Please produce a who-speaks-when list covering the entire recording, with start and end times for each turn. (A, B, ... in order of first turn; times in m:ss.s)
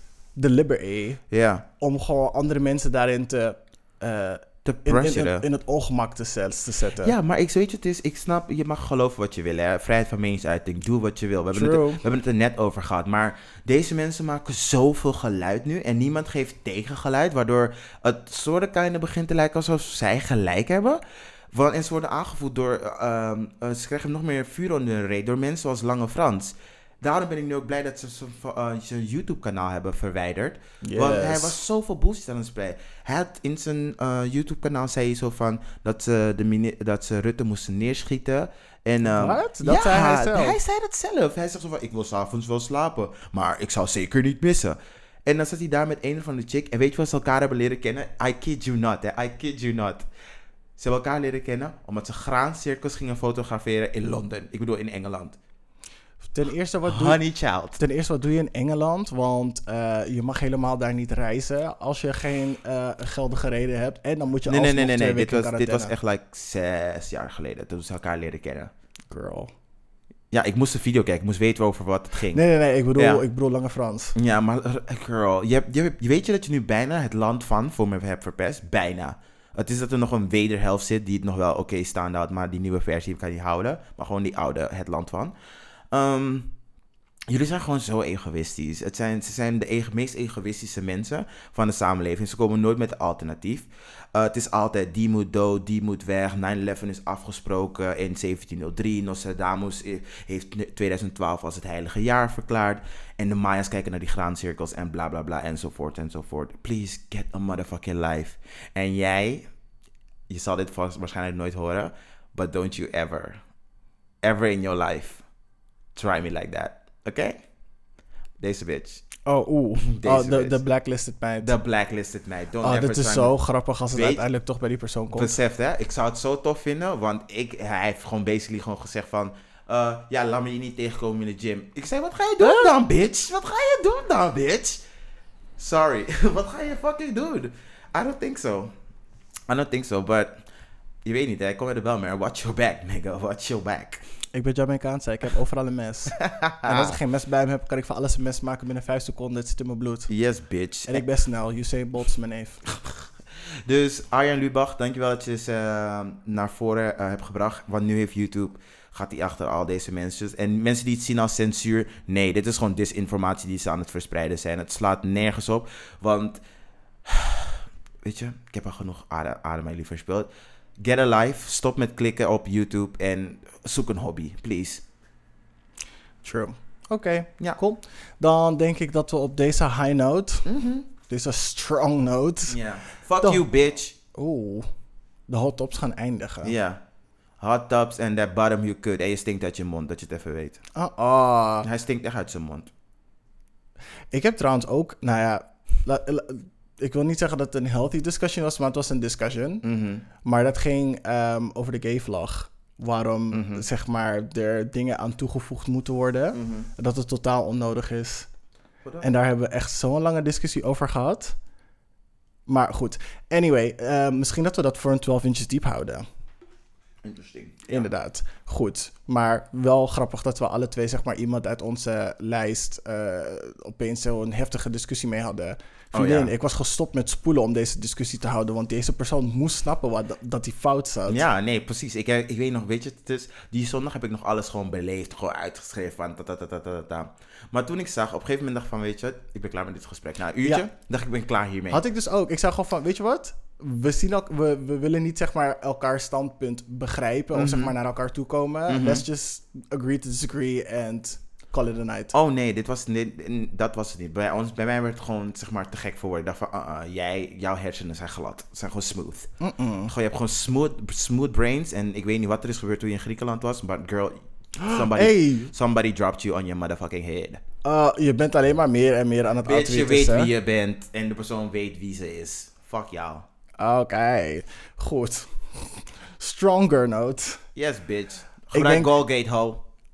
0:00.3-0:07.1 A
0:01.3-0:01.6 B
0:04.6-0:05.4 B
0:07.0-0:50.0 B
0:11.5-0:12.0 A
0:30.8-0:31.6 A
0:39.1-0:40.6 A
0:50.8-0:55.4 B
0:56.3-0:57.2 A
0:56.8-0:57.8 B
0:57.8-1:05.9 A
1:04.5-1:08.7 B
1:09.1-1:09.5 A
1:10.3-1:12.4 B
1:12.3-1:14.1 A
1:13.0-1:13.2 B
1:14.1-1:25.3 B
1:25.9-1:26.5 B
1:27.3-1:49.5 B
1:50.3-1:53.4 B
1:54.2-1:55.2 B
1:55.9-1:57.5 B
1:58.4-1:59.1 B
1:59.2-2:01.5 A
1:59.9-2:00.6 B
2:01.4-2:03.3 B
2:02.6-2:05.4 A
2:03.9-2:04.2 B
2:05.1-2:14.8 B
2:12.4-2:12.7 A
2:15.6-2:18.7 B
2:19.5-2:20.4 B
2:21.0-2:24.0 B
2:24.3-2:30.1 A
2:26.2-2:27.0 B
2:30.1-2:31.0 B
2:30.8-2:32.6 A
2:33.6-2:46.4 B
2:47.0-2:54.8 B
2:56.2-3:00.5 A
3:00.4-3:00.9 B
3:01.1-3:02.6 A
3:02.5-3:03.9 B
3:04.1-3:04.7 A
3:05.3-3:06.5 A
3:06.4-3:06.8 B
3:07.4-3:10.6 B
3:10.7-3:11.7 A
3:11.6-3:12.7 B
3:14.1-3:19.6 A
3:19.6-3:20.0 B
3:20.2-3:28.3 A
3:23.3-3:23.6 B
3:26.3-3:26.7 B
3:29.0-3:31.4 A
3:32.4-3:36.0 A
3:37.0-3:37.9 B
3:37.7-3:51.2 A
3:45.9-3:46.3 B
3:51.0-4:01.8 B
4:01.7-4:12.1 A
4:07.3-4:07.7 B
4:08.7-4:09.0 B
4:12.1-4:19.3 B
4:19.4-4:19.9 A
4:19.8-4:27.4 B
4:24.6-4:25.5 A
4:27.6-4:30.3 A
4:29.4-4:33.3 B
4:33.6-4:37.4 A
4:37.5-4:39.6 B
4:38.5-4:38.9 A